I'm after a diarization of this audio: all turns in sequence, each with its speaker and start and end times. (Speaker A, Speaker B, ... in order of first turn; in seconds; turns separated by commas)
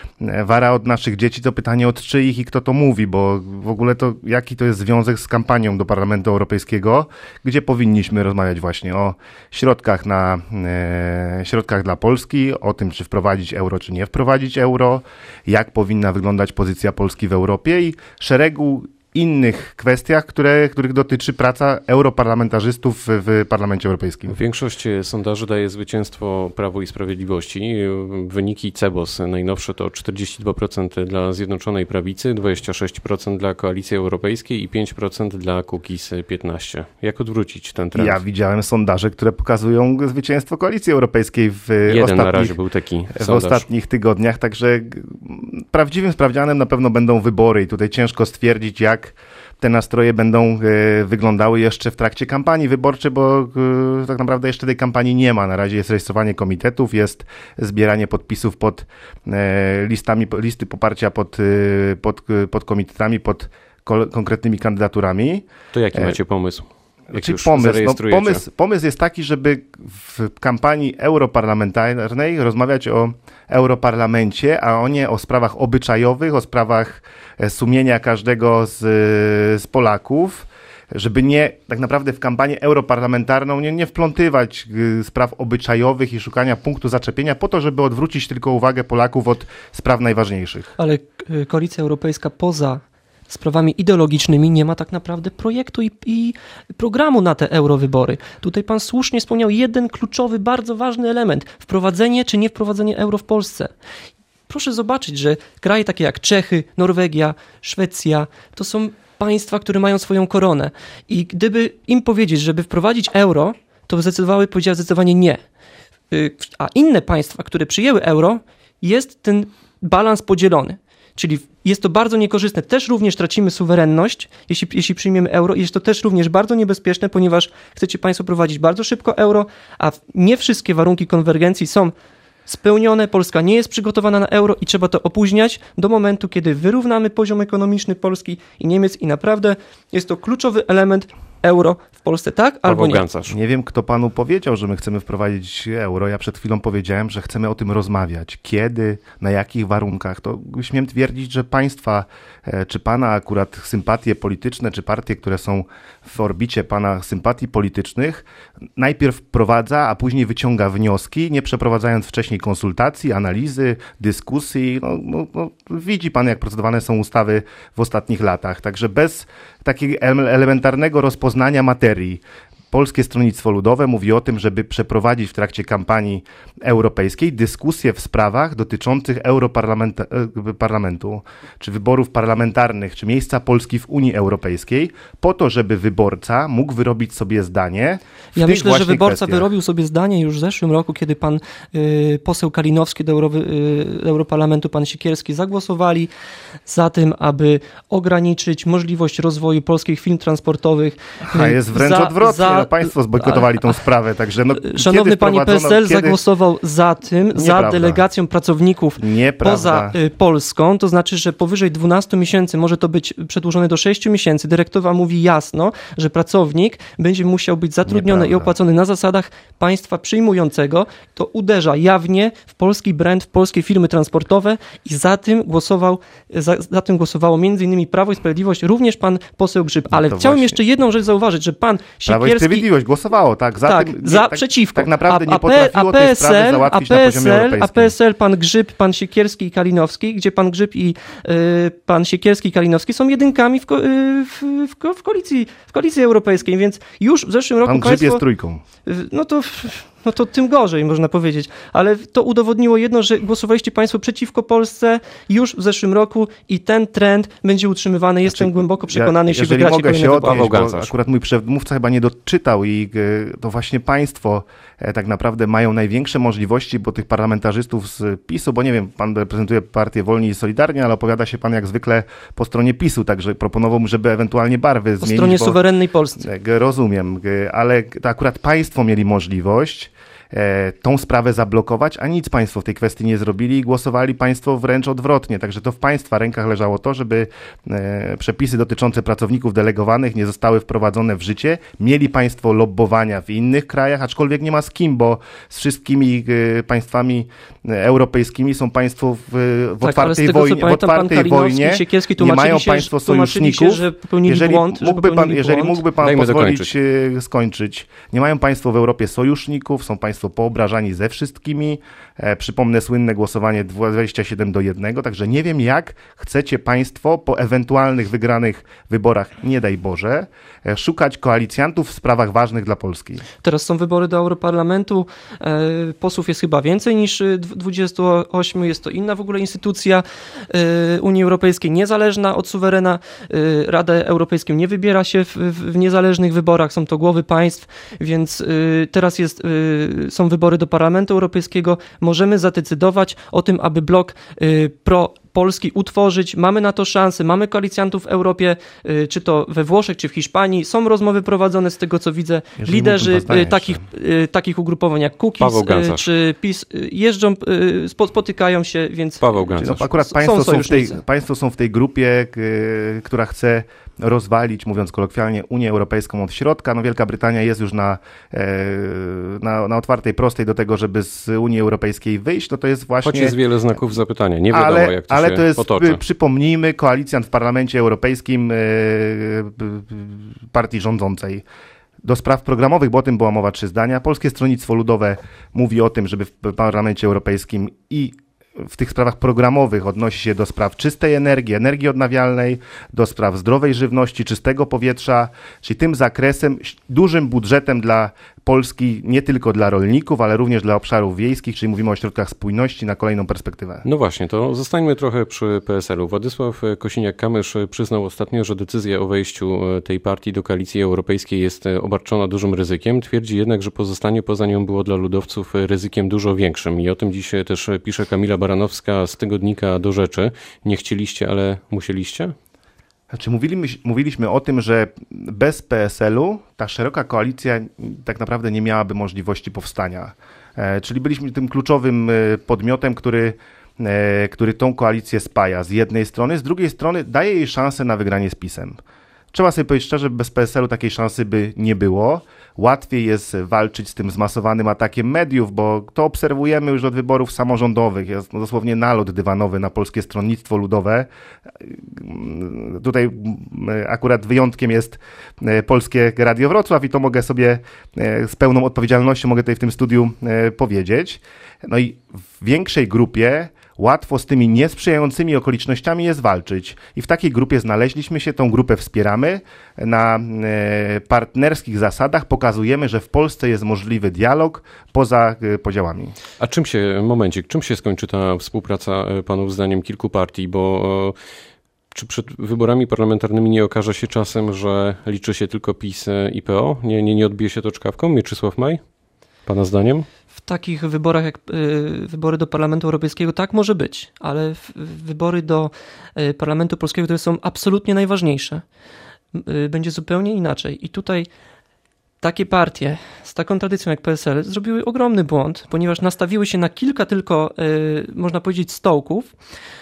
Speaker A: 0.2-24.4, Speaker B: 24.3-38.2, Speaker A: 37.9-42.6, Speaker B: 41.9-43.6, Speaker A: 43.1-66.2, Speaker B: 65.7-68.4, Speaker A: 67.1-90.7, Speaker C: 90.8-103.7, Speaker C: 104.5-115.4, Speaker C: 116.1-131.9, Speaker C: 132.5-143.0, Speaker B: 142.7-143.3, Speaker A: 143.3-158.2, Speaker A: 158.8-189.5, Speaker C: 188.3-196.1, Speaker C: 196.7-203.8, Speaker A: 201.3-206.2, Speaker C: 204.5-232.7, Speaker A: 207.3-208.0, Speaker A: 209.0-209.9, Speaker A: 217.8-218.5, Speaker A: 229.9-230.6, Speaker A: 232.1-237.9, Speaker C: 233.6-248.2, Speaker A: 247.6-248.6, Speaker C: 248.8-260.5, Speaker A: 258.2-275.6, Speaker B: 260.2-260.9, Speaker C: 275.0-276.2, Speaker A: 276.2-323.2, Speaker C: 299.8-305.8, Speaker B: 306.0-306.7, Speaker C: 323.4-361.0, Speaker A: 352.6-353.8, Speaker B: 355.4-356.1, Speaker B: 359.2-359.9, Speaker A: 359.6-373.4, Speaker B: 373.0-376.0, Speaker A: 374.5-381.4, Speaker A: 382.0-403.8, Speaker B: 403.8-422.3, Speaker A: 423.1-438.8, Speaker A: 439.3-451.1, Speaker A: 451.6-476.1, Speaker B: 476.4-481.1, Speaker B: 481.9-488.8, Speaker B: 489.4-490.1, Speaker C: 490.3-498.6, Speaker C: 499.3-501.3, Speaker C: 502.2-509.3